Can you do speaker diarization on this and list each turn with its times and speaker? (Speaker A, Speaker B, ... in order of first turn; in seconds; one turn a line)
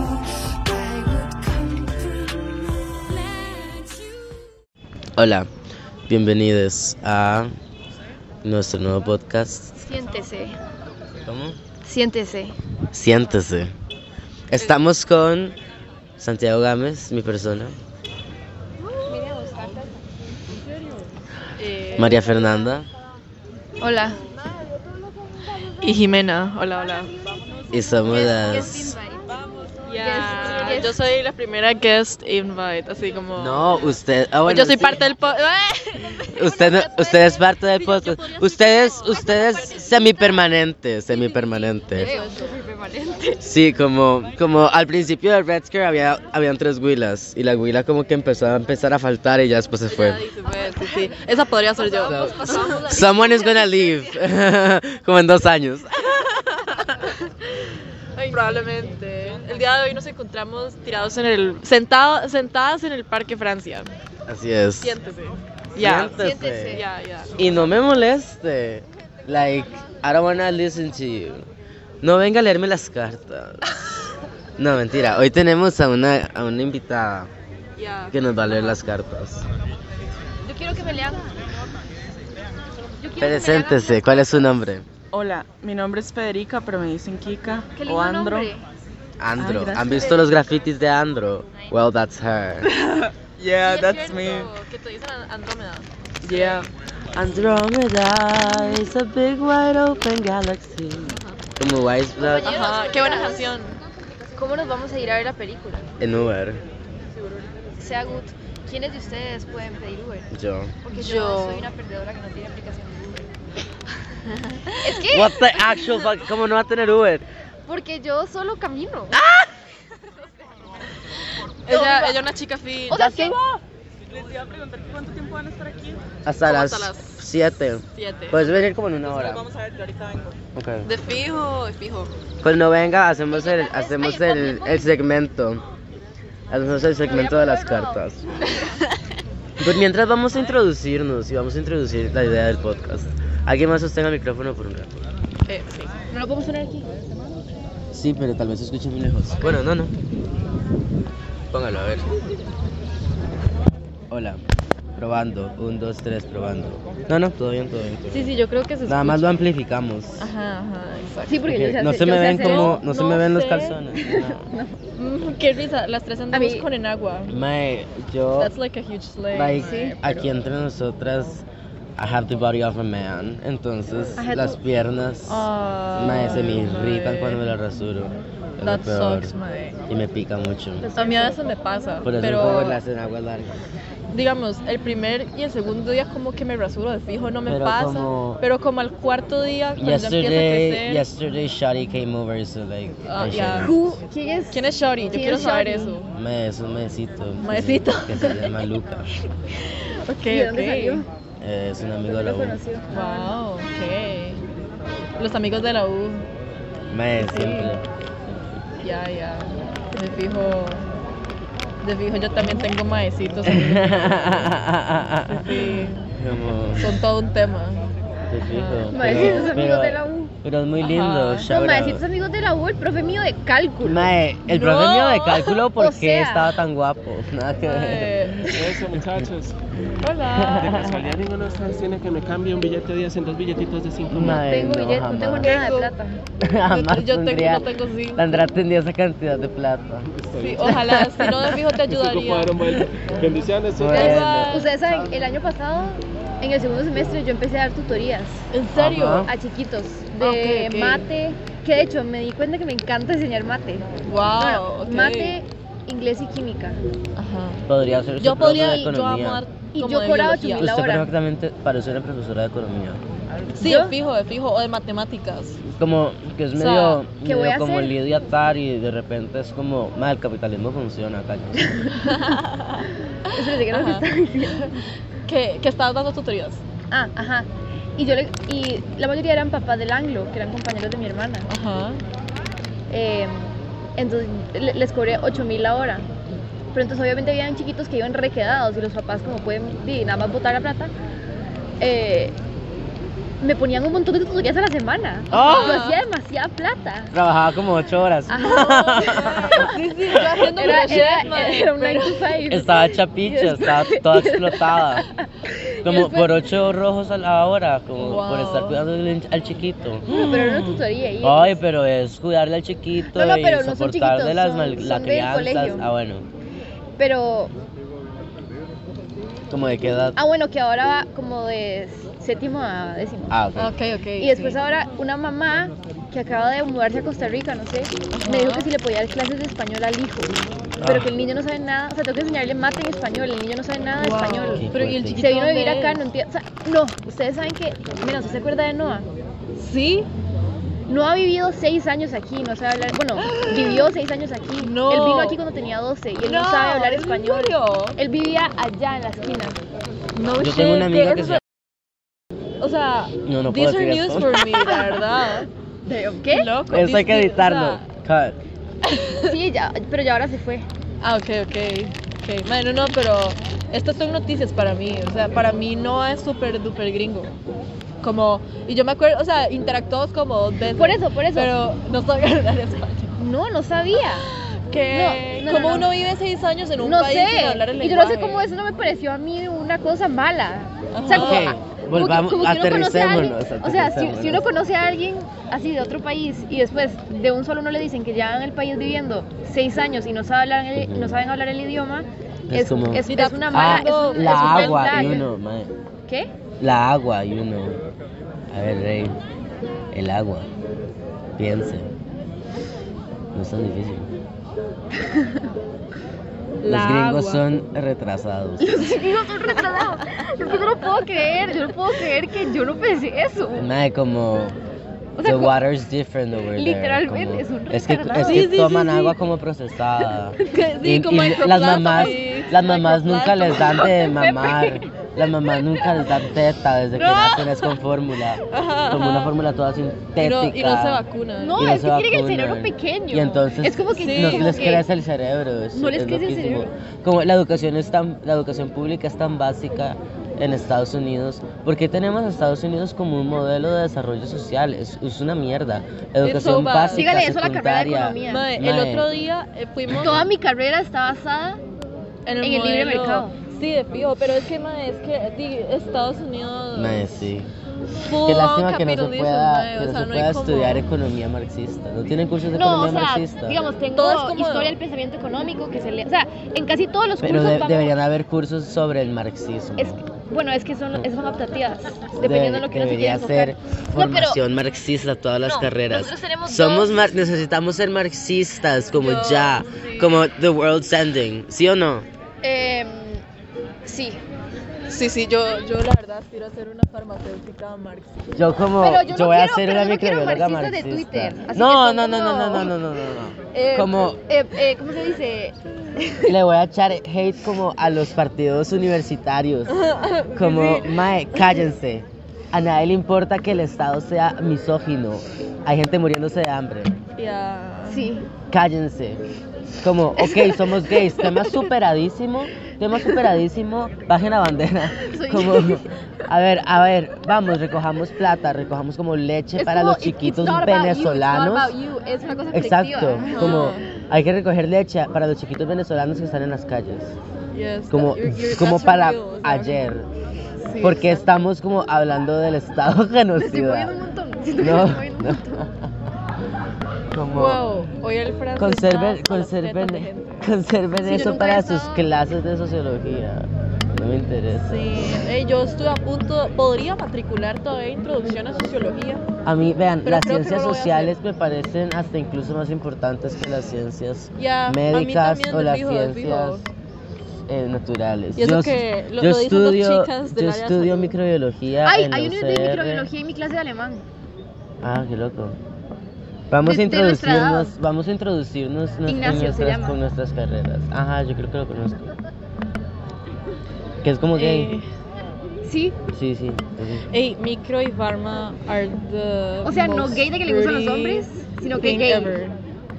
Speaker A: 1.9-2.3
Speaker A: 3.4-3.7
Speaker B: 5.2-5.5
Speaker B: 6.1-7.5
Speaker B: 8.4-9.8
Speaker A: 9.8-10.6
Speaker B: 11.2-11.6
Speaker A: 11.8-12.6
Speaker B: 12.9-13.7
Speaker B: 14.5-15.6
Speaker B: 16.2-17.8
Speaker A: 19.0-19.9
Speaker C: 21.6-22.3
Speaker B: 21.9-22.9
Speaker A: 23.8-24.2
Speaker C: 25.8-27.1
Speaker B: 27.7-28.9
Speaker A: 28.0-29.4
Speaker C: 29.8-33.7
Speaker A: 29.9-31.0
Speaker B: 33.4-35.0
Speaker C: 34.4-36.4
Speaker B: 36.3-42.1
Speaker A: 36.4-37.4
Speaker C: 37.7-39.8
Speaker A: 41.1-43.5
Speaker C: 42.0-42.5
Speaker B: 43.4-50.2
Speaker C: 49.9-53.7
Speaker A: 50.5-51.1
Speaker A: 51.8-53.5
Speaker B: 52.1-56.8
Speaker C: 56.9-57.3
Speaker C: 58.1-63.9
Speaker B: 64.3-65.0
Speaker C: 64.8-67.4
Speaker B: 65.8-66.8
Speaker A: 66.1-66.8
Speaker B: 67.4-71.5
Speaker B: 72.0-73.9
Speaker B: 74.6-77.3
Speaker C: 77.8-78.1
Speaker B: 78.1-79.5
Speaker A: 80.4-81.2
Speaker A: 83.0-84.5
Speaker B: 83.2-84.8
Speaker D: 85.1-88.5
Speaker A: 87.7-88.6
Speaker B: 89.2-92.7
Speaker D: 89.4-90.2
Speaker D: 92.8-93.1
Speaker B: 93.4-94.3
Speaker C: 93.6-96.6
Speaker D: 93.7-94.5
Speaker D: 96.2-96.7
Speaker B: 97.1-102.5
Speaker A: 102.2-103.5
Speaker C: 102.4-103.8
Speaker A: 104.3-105.8
Speaker B: 106.0-106.6
Speaker A: 107.8-110.3
Speaker B: 110.3-110.7
Speaker A: 110.8-113.3
Speaker C: 110.9-111.7
Speaker A: 114.8-115.8
Speaker B: 115.0-117.2
Speaker A: 117.7-119.2
Speaker B: 119.1-119.5
Speaker C: 121.6-123.5
Speaker A: 121.7-122.2
Speaker A: 122.9-123.4
Speaker D: 124.3-126.0
Speaker C: 124.7-125.7
Speaker B: 126.2-129.4
Speaker C: 126.4-127.2
Speaker C: 127.9-128.5
Speaker C: 129.1-130.3
Speaker B: 130.5-130.9
Speaker C: 130.8-132.1
Speaker B: 132.4-135.6
Speaker A: 133.3-134.9
Speaker B: 136.5-138.3
Speaker A: 137.0-138.0
Speaker B: 139.6-145.0
Speaker C: 145.5-145.9
Speaker A: 146.1-146.9
Speaker B: 147.9-149.9
Speaker B: 151.5-152.1
Speaker B: 154.1-154.4
Speaker B: 154.9-158.3
Speaker C: 158.1-159.4
Speaker B: 158.8-160.3
Speaker C: 160.2-161.4
Speaker A: 161.3-162.8
Speaker B: 161.5-164.4
Speaker C: 162.0-163.8
Speaker A: 163.9-164.8
Speaker C: 164.9-167.3
Speaker A: 166.3-166.6
Speaker B: 167.3-168.5
Speaker C: 168.4-170.3
Speaker B: 169.3-171.4
Speaker A: 169.6-169.9
Speaker B: 172.0-179.3
Speaker A: 174.2-174.6
Speaker C: 175.3-177.4
Speaker C: 178.6-179.8
Speaker B: 179.9-180.9
Speaker A: 180.8-181.4
Speaker C: 181.0-182.8
Speaker B: 182.0-183.6
Speaker C: 184.1-191.0
Speaker B: 187.4-188.4
Speaker B: 189.8-193.8
Speaker C: 193.1-193.8
Speaker A: 193.6-196.0
Speaker C: 194.5-196.1
Speaker B: 196.1-199.1
Speaker C: 197.4-198.6
Speaker C: 199.5-201.0
Speaker A: 200.3-201.1
Speaker B: 201.4-202.6
Speaker A: 202.2-203.3
Speaker C: 202.9-204.4
Speaker C: 205.2-206.3
Speaker B: 206.9-208.4
Speaker C: 207.2-207.7
Speaker C: 208.8-210.8
Speaker C: 211.8-214.4
Speaker B: 213.4-217.0
Speaker C: 215.3-216.1
Speaker C: 216.8-217.9
Speaker B: 218.3-222.0
Speaker C: 218.4-219.6
Speaker A: 218.9-220.3
Speaker C: 220.8-221.5
Speaker A: 221.5-224.1
Speaker B: 223.8-229.0
Speaker C: 224.5-225.6
Speaker A: 225.8-226.5
Speaker C: 227.6-228.5
Speaker E: 228.5-229.6
Speaker C: 230.0-230.8
Speaker B: 230.3-231.1
Speaker E: 230.4-234.4
Speaker B: 234.1-235.5
Speaker A: 234.1-236.2
Speaker C: 235.4-235.9
Speaker B: 236.4-240.1
Speaker C: 236.7-238.4
Speaker E: 240.2-240.9
Speaker C: 240.4-242.6
Speaker B: 240.6-241.8
Speaker E: 241.9-244.5
Speaker B: 243.7-244.6
Speaker C: 243.9-245.1
Speaker A: 244.0-248.4
Speaker C: 248.5-249.3
Speaker B: 248.7-249.3
Speaker A: 249.2-256.8
Speaker C: 250.2-251.0
Speaker C: 254.1-255.3
Speaker C: 257.1-257.6
Speaker B: 257.7-259.4
Speaker C: 258.2-260.7
Speaker A: 259.7-261.1
Speaker B: 260.6-263.0
Speaker C: 263.5-265.6
Speaker A: 263.6-263.9
Speaker B: 265.6-271.9
Speaker C: 266.6-267.0
Speaker A: 267.2-267.9
Speaker C: 271.9-276.6
Speaker A: 273.3-274.7
Speaker A: 276.9-281.5
Speaker C: 281.5-282.0
Speaker A: 282.9-286.1
Speaker A: 286.7-290.9
Speaker A: 291.8-292.4
Speaker A: 293.4-297.1
Speaker B: 295.3-295.8
Speaker C: 295.3-296.0
Speaker B: 297.1-300.4
Speaker A: 298.3-306.3
Speaker C: 298.3-302.4
Speaker B: 302.5-305.1
Speaker B: 305.8-316.3
Speaker C: 308.0-308.8
Speaker A: 310.1-311.6
Speaker A: 313.0-315.8
Speaker A: 317.0-317.5
Speaker B: 319.5-320.1
Speaker A: 320.1-323.4
Speaker B: 323.3-323.7
Speaker C: 323.6-324.6
Speaker A: 324.2-334.7
Speaker C: 328.1-328.7
Speaker B: 330.8-331.1
Speaker C: 334.0-336.0
Speaker B: 334.5-335.2
Speaker A: 335.2-339.1
Speaker C: 339.6-340.1
Speaker A: 340.9-349.6
Speaker C: 343.2-343.9
Speaker C: 344.6-345.4
Speaker C: 346.2-348.0
Speaker C: 350.1-351.4
Speaker B: 350.4-351.4
Speaker C: 352.6-355.5
Speaker B: 353.2-354.8
Speaker A: 355.9-356.5
Speaker C: 356.3-357.8
Speaker B: 356.7-358.4
Speaker C: 358.8-359.3
Speaker A: 359.2-360.7
Speaker C: 361.0-367.3
Speaker C: 368.0-373.1
Speaker A: 370.8-371.5
Speaker A: 373.2-374.3
Speaker C: 374.3-378.4
Speaker A: 374.9-375.9
Speaker A: 376.8-395.3
Speaker C: 380.9-381.6
Speaker B: 381.1-384.4
Speaker B: 390.7-391.2
Speaker B: 392.5-395.7
Speaker C: 393.0-395.3
Speaker B: 396.6-397.8
Speaker B: 398.5-399.2
Speaker B: 399.9-400.5
Speaker B: 401.4-401.9
Speaker B: 403.3-404.1
Speaker C: 406.6-407.4
Speaker B: 406.7-408.9
Speaker A: 408.6-413.7
Speaker B: 413.6-414.6
Speaker A: 415.2-415.6
Speaker B: 415.2-449.1
Speaker A: 416.5-418.5
Speaker C: 418.1-419.1
Speaker C: 420.4-424.0
Speaker A: 421.5-422.4
Speaker A: 423.8-424.9
Speaker C: 426.9-427.7
Speaker C: 428.5-429.3
Speaker C: 430.2-431.6
Speaker A: 431.4-434.8
Speaker C: 433.9-434.7
Speaker A: 435.7-436.7
Speaker C: 446.2-447.1
Speaker A: 446.9-448.5
Speaker C: 448.2-450.3
Speaker A: 449.9-451.6
Speaker C: 452.2-457.2
Speaker A: 452.4-453.4
Speaker B: 456.7-457.5
Speaker C: 458.0-460.8
Speaker B: 458.1-463.6
Speaker A: 462.5-467.9
Speaker C: 463.9-464.8
Speaker B: 467.2-470.0
Speaker A: 469.8-474.4
Speaker B: 472.1-482.1
Speaker A: 475.4-477.1
Speaker C: 478.9-480.1
Speaker A: 482.4-483.2
Speaker A: 483.8-484.2
Speaker C: 484.9-488.3
Speaker B: 488.3-494.2
Speaker A: 488.8-492.7
Speaker A: 493.5-496.3
Speaker B: 496.2-507.0
Speaker C: 499.7-501.0
Speaker C: 507.2-508.1
Speaker A: 507.9-508.3
Speaker B: 508.5-509.2
Speaker B: 509.8-521.7
Speaker A: 510.2-510.6
Speaker A: 515.0-515.9
Speaker A: 519.5-523.9
Speaker B: 522.5-527.1
Speaker C: 523.2-523.9
Speaker C: 527.5-529.8
Speaker B: 527.9-530.1
Speaker C: 530.6-531.2
Speaker B: 530.8-533.9
Speaker A: 533.4-535.7
Speaker B: 534.6-535.7
Speaker B: 537.1-537.6
Speaker C: 537.3-540.5
Speaker B: 538.6-544.9
Speaker A: 541.0-542.0
Speaker C: 544.6-549.2
Speaker B: 549.4-556.6
Speaker C: 550.0-551.1
Speaker C: 554.4-556.6
Speaker B: 557.5-563.1
Speaker C: 558.4-561.1
Speaker A: 561.8-564.0
Speaker B: 564.8-565.6
Speaker B: 566.5-572.1
Speaker A: 566.6-567.7
Speaker A: 569.0-570.0
Speaker B: 574.0-574.8
Speaker C: 574.3-574.9
Speaker A: 575.6-576.0
Speaker B: 576.1-577.0
Speaker C: 577.1-581.3
Speaker A: 579.6-582.4
Speaker C: 581.8-582.6